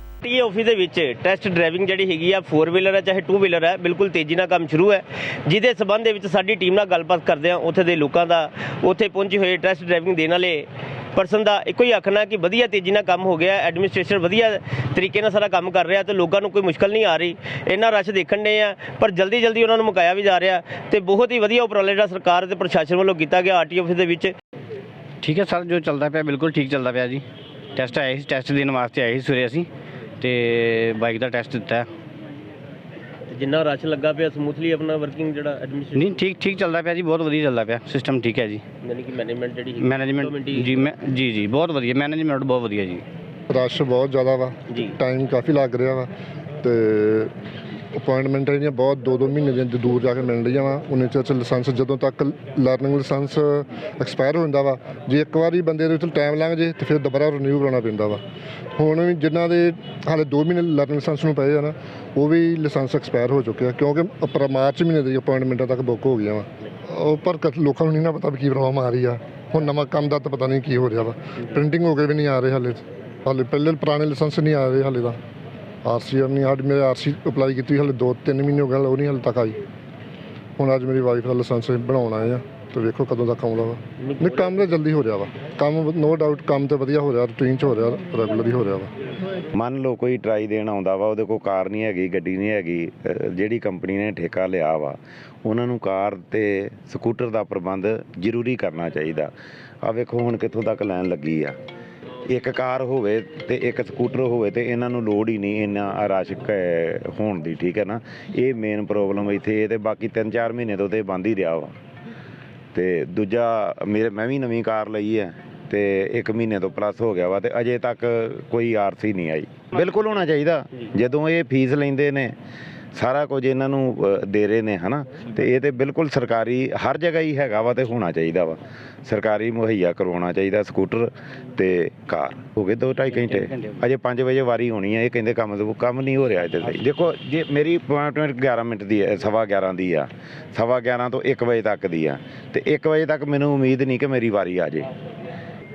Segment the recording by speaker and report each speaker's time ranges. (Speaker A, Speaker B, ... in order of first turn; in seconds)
Speaker A: 0.2-24.3, 33.3-36.2, 38.8-40.8, 84.0-84.6
Speaker B: 25.2-27.2, 27.7-29.7, 30.2-31.9, 35.9-38.6, 39.8-43.0, 133.1-133.8
Speaker C: 43.5-46.1, 46.6-47.3, 48.0-58.2, 58.8-75.2, 75.8-79.6, 80.6-88.9
Speaker D: 89.5-99.3, 99.8-101.5, 102.2-111.8, 112.7-122.3, 122.9-144.9